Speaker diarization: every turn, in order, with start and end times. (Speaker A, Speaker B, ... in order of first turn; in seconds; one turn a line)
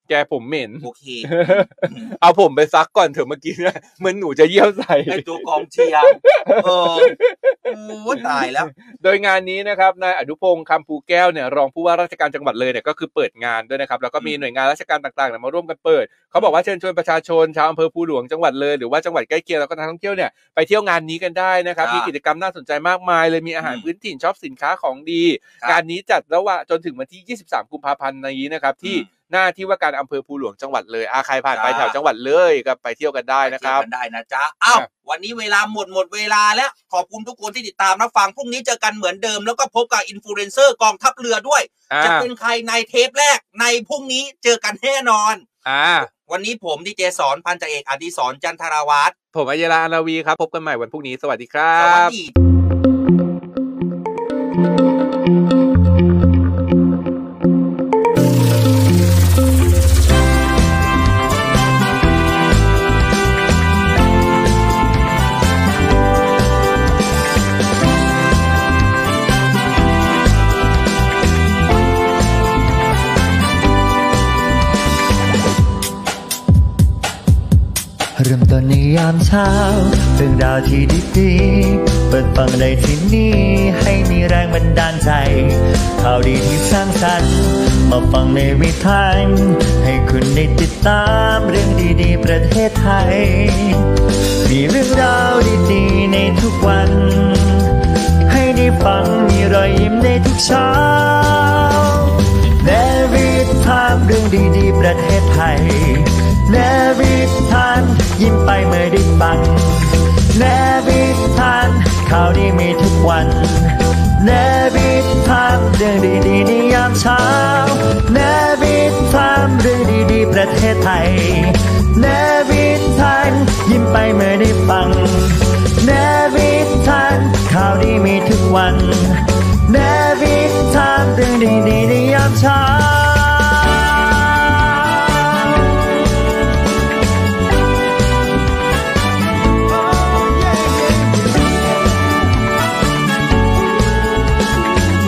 Speaker A: 0.1-7.6
Speaker B: 0.8-2.1
Speaker B: 5.1-8.7
Speaker A: 8.1-33.9
Speaker B: 21.8-22.1
Speaker B: 23.6-23.9
Speaker B: 31.5-31.9
Speaker B: 33.4-45.5
Speaker A: 41.9-42.3
Speaker A: 45.6-46.1
Speaker B: 46.2-49.1
Speaker A: 49.3-52.1
Speaker B: 51.8-52.3
Speaker C: 78.2-93.9
Speaker C: 94.5-97.8
Speaker C: 98.3-135.9
Speaker C: 139.9-141.9